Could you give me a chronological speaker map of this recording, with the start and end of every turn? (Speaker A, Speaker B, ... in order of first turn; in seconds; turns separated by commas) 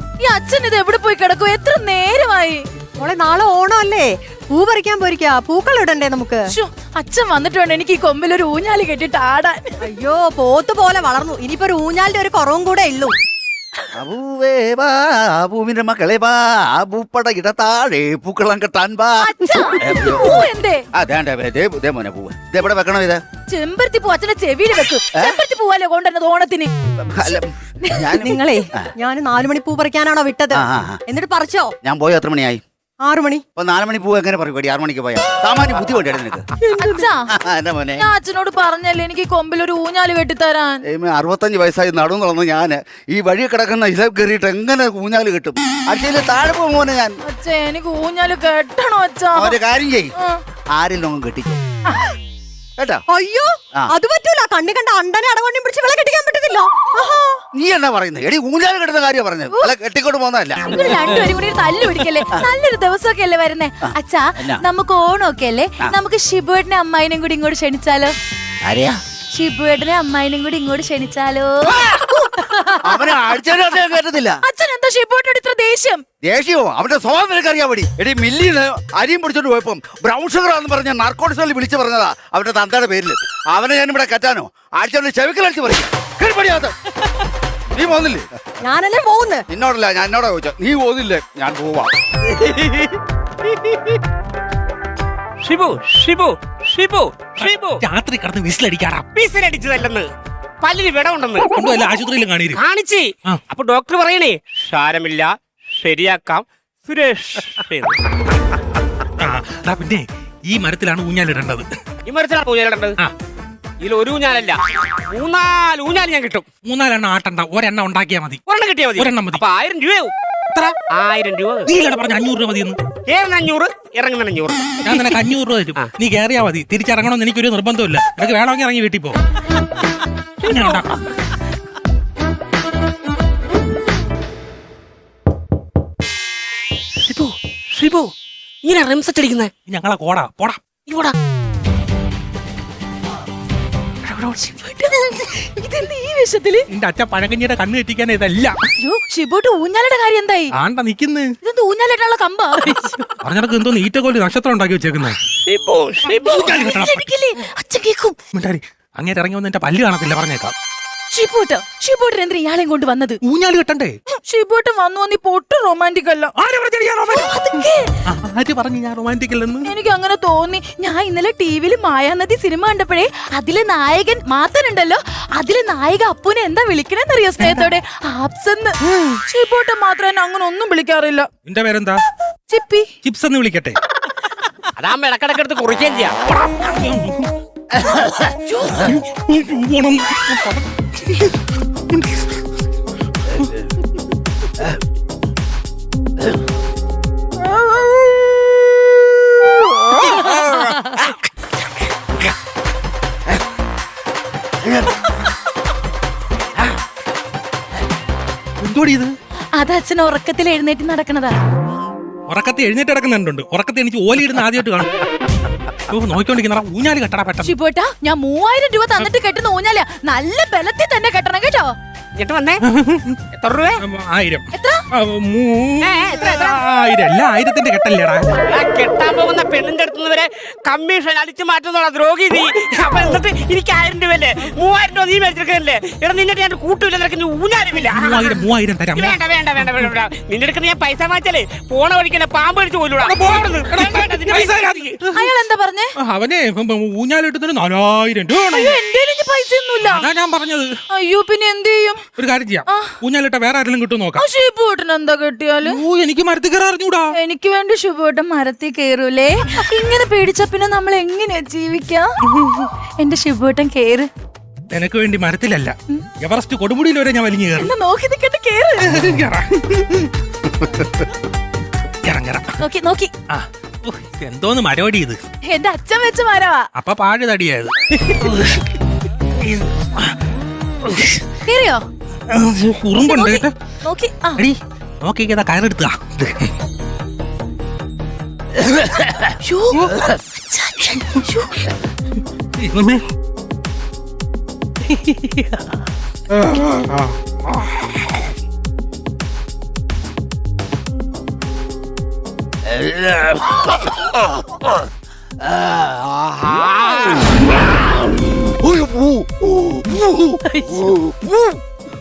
Speaker A: 0.2-2.6, Speaker B: 3.0-6.4, Speaker A: 6.5-9.8, Speaker B: 9.8-13.1, Speaker C: 13.9-23.2, Speaker A: 19.2-20.8, Speaker A: 23.5-26.7, Speaker C: 27.0-28.9, Speaker A: 27.2-28.2, Speaker B: 28.2-31.7, Speaker C: 30.5-31.0, Speaker C: 31.8-32.6, Speaker B: 33.0-33.4, Speaker C: 33.5-36.5, Speaker A: 36.8-37.3, Speaker C: 37.3-38.0, Speaker A: 38.0-40.8, Speaker C: 40.9-47.2, Speaker A: 47.2-49.6, Speaker C: 49.4-50.1, Speaker C: 50.7-51.6, Speaker C: 52.8-53.0, Speaker B: 53.1-57.4, Speaker C: 57.5-61.0, Speaker A: 60.7-68.1, Speaker C: 63.8-64.6, Speaker C: 68.6-69.0, Speaker A: 69.3-73.1, Speaker C: 71.6-72.2, Speaker C: 72.8-74.4, Speaker A: 74.5-76.0, Speaker C: 76.2-86.7, Speaker C: 87.7-88.2, Speaker B: 88.6-89.4, Speaker C: 89.5-91.9, Speaker D: 95.4-97.8, Speaker E: 97.4-99.0, Speaker D: 99.1-100.1, Speaker D: 100.6-101.5, Speaker E: 101.5-102.6, Speaker D: 102.5-107.9, Speaker E: 109.2-111.6, Speaker D: 112.0-113.0, Speaker D: 113.8-116.5, Speaker E: 116.6-118.4, Speaker D: 118.5-120.1, Speaker E: 119.0-119.4, Speaker D: 120.9-121.7, Speaker E: 121.7-122.8, Speaker D: 123.1-125.1, Speaker E: 124.8-129.2, Speaker E: 130.4-130.9, Speaker D: 130.5-130.8, Speaker D: 137.1-138.1, Speaker D: 138.6-139.5, Speaker E: 139.7-140.6, Speaker D: 140.9-141.1, Speaker A: 144.1-146.7, Speaker E: 146.7-148.6, Speaker A: 148.8-150.5, Speaker E: 150.6-151.2, Speaker A: 151.4-152.9, Speaker E: 153.2-155.2, Speaker D: 155.4-156.5, Speaker A: 156.1-158.2, Speaker E: 156.2-157.1, Speaker E: 158.3-160.5, Speaker A: 161.1-163.2, Speaker E: 163.2-163.9, Speaker A: 164.2-166.3, Speaker E: 166.4-167.3, Speaker A: 167.1-167.8, Speaker E: 168.1-169.7, Speaker A: 169.6-181.3, Speaker E: 181.4-182.0, Speaker A: 182.5-182.8, Speaker E: 183.0-183.8, Speaker D: 184.8-186.1, Speaker E: 186.3-187.2, Speaker E: 188.8-191.3, Speaker C: 199.8-201.2, Speaker C: 204.6-204.9, Speaker E: 208.6-209.1, Speaker A: 209.5-211.3, Speaker E: 212.3-214.9, Speaker E: 215.9-217.5, Speaker A: 217.4-221.7, Speaker D: 222.2-222.6, Speaker E: 222.7-223.2, Speaker D: 223.4-223.8, Speaker E: 223.8-228.2, Speaker A: 224.5-224.8, Speaker D: 225.8-226.6, Speaker D: 228.5-238.4, Speaker E: 237.9-239.2, Speaker D: 238.9-244.9, Speaker E: 243.0-245.3, Speaker A: 245.1-245.9, Speaker E: 246.0-248.8, Speaker A: 248.5-250.1, Speaker E: 249.8-250.7, Speaker A: 250.9-252.0, Speaker E: 252.2-254.2, Speaker A: 252.7-252.9, Speaker A: 254.2-255.8, Speaker E: 255.6-257.1, Speaker A: 257.1-262.1, Speaker A: 263.0-264.1, Speaker E: 264.7-267.7, Speaker A: 267.6-268.9, Speaker E: 268.8-270.1, Speaker E: 272.0-272.6, Speaker A: 272.6-273.1, Speaker E: 273.3-275.2, Speaker A: 275.5-276.7, Speaker E: 276.8-277.7, Speaker A: 281.4-281.8, Speaker E: 282.3-283.5, Speaker A: 283.0-284.4, Speaker E: 284.4-286.5, Speaker A: 289.4-289.9, Speaker A: 290.5-291.7, Speaker E: 292.6-293.0, Speaker C: 302.6-304.8, Speaker C: 305.4-307.3, Speaker C: 308.6-311.6